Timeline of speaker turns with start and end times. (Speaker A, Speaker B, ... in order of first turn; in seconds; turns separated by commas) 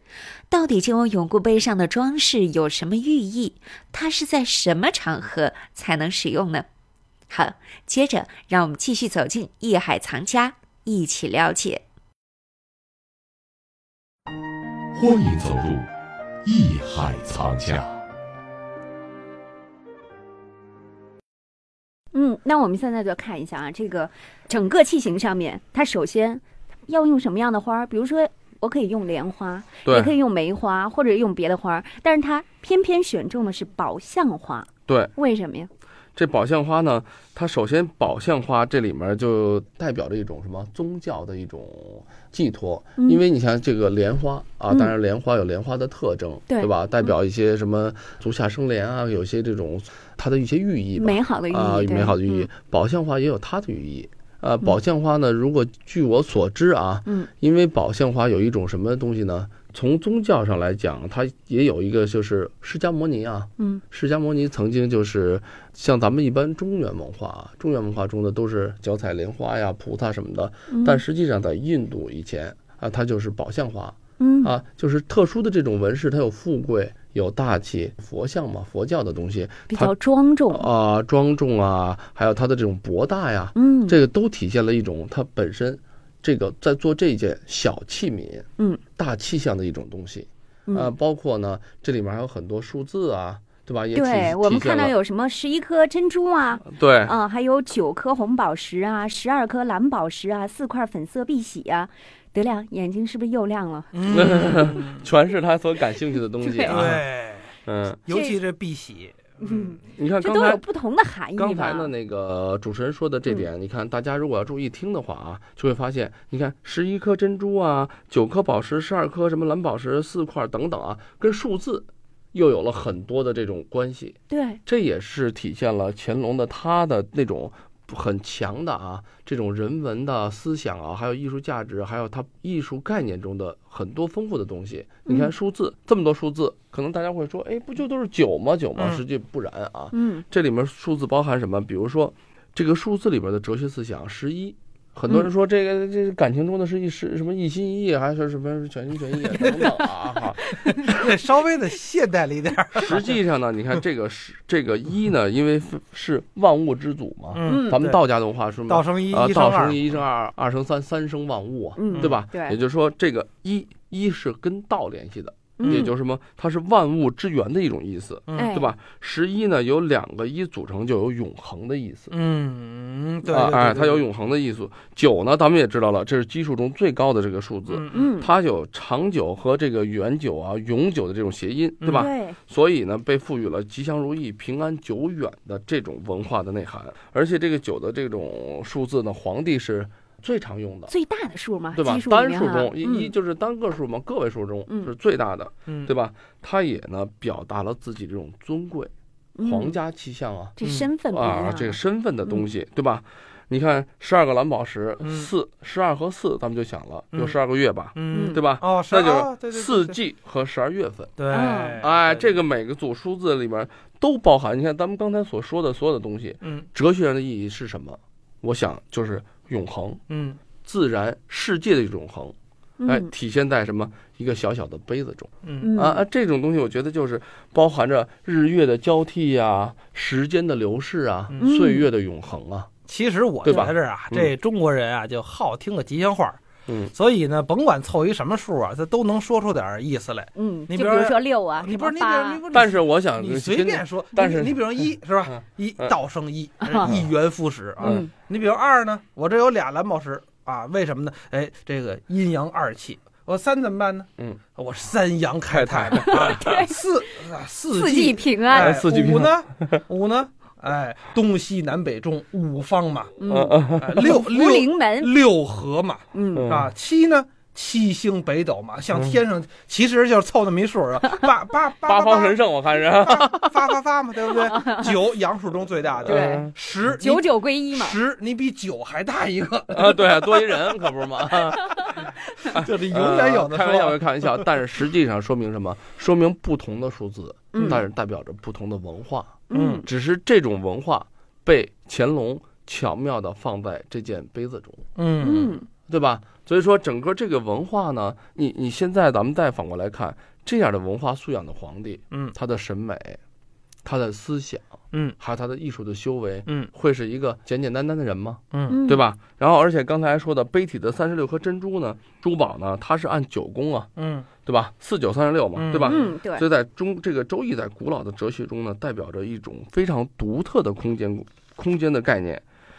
Speaker A: 0.5-6.7, Speaker A: 7.3-11.8, Speaker B: 14.9-15.9, Speaker B: 16.4-17.9, Speaker C: 22.1-35.7, Speaker D: 29.8-30.1, Speaker D: 34.9-35.1, Speaker D: 36.1-80.0, Speaker C: 44.7-44.9, Speaker C: 46.5-47.1, Speaker C: 51.0-52.5, Speaker C: 70.7-71.0, Speaker C: 74.2-74.5, Speaker C: 79.7-80.7, Speaker D: 80.5-94.9, Speaker C: 83.5-84.0, Speaker C: 90.7-90.9, Speaker C: 93.9-104.2, Speaker D: 96.6-97.1, Speaker E: 103.9-104.9, Speaker D: 104.1-107.0, Speaker C: 106.4-106.9, Speaker E: 106.6-109.6, Speaker D: 107.7-108.0, Speaker C: 108.1-108.4, Speaker C: 109.4-111.9, Speaker D: 109.9-110.6, Speaker D: 111.3-150.8, Speaker C: 124.3-124.6, Speaker C: 135.1-135.3, Speaker C: 139.9-140.2, Speaker E: 150.8-153.1, Speaker D: 152.8-172.1, Speaker E: 157.3-158.0, Speaker C: 157.4-157.8, Speaker E: 158.7-159.8, Speaker C: 161.8-162.6, Speaker C: 165.6-165.9, Speaker C: 168.3-168.7, Speaker E: 172.1-174.0, Speaker D: 173.2-190.9, Speaker E: 177.7-178.1, Speaker C: 177.9-178.3, Speaker E: 181.8-182.1, Speaker C: 181.9-182.4, Speaker C: 190.9-193.1, Speaker D: 191.7-198.9, Speaker C: 194.7-194.9, Speaker E: 195.7-195.9, Speaker C: 199.3-199.8, Speaker D: 199.4-200.6, Speaker C: 200.6-202.5, Speaker E: 200.6-200.9, Speaker D: 201.1-211.2, Speaker E: 205.0-205.3, Speaker E: 207.9-210.0, Speaker C: 208.1-208.4, Speaker E: 211.2-212.3, Speaker C: 211.3-211.8, Speaker D: 211.8-220.0, Speaker E: 220.1-220.4, Speaker D: 220.6-222.3, Speaker C: 222.8-223.1, Speaker D: 222.8-232.7, Speaker E: 225.4-225.7, Speaker C: 225.6-226.0, Speaker C: 231.4-231.9, Speaker E: 232.9-236.4, Speaker D: 233.4-234.3, Speaker D: 236.7-236.9, Speaker E: 236.9-263.1, Speaker C: 240.3-242.4, Speaker D: 242.5-245.9, Speaker C: 246.6-246.9, Speaker D: 246.7-247.0, Speaker C: 247.8-248.1, Speaker D: 255.5-256.4, Speaker C: 256.0-256.8, Speaker C: 257.7-258.7, Speaker D: 258.5-259.8, Speaker C: 263.2-265.1, Speaker D: 263.3-264.0, Speaker E: 263.8-280.4, Speaker C: 266.1-266.5, Speaker D: 266.3-266.7, Speaker D: 271.8-273.6, Speaker C: 274.4-274.9, Speaker D: 276.1-276.5, Speaker C: 276.1-278.0, Speaker D: 279.7-282.0, Speaker E: 282.4-284.5, Speaker D: 282.5-294.9, Speaker C: 287.5-287.8, Speaker C: 289.5-289.9, Speaker E: 294.9-295.5, Speaker C: 295.2-295.7, Speaker D: 295.9-303.2, Speaker D: 303.8-313.9, Speaker E: 304.9-305.2, Speaker E: 308.5-308.8, Speaker C: 308.7-309.0, Speaker E: 314.0-314.3, Speaker D: 314.4-322.4, Speaker E: 315.5-316.0, Speaker C: 315.8-316.4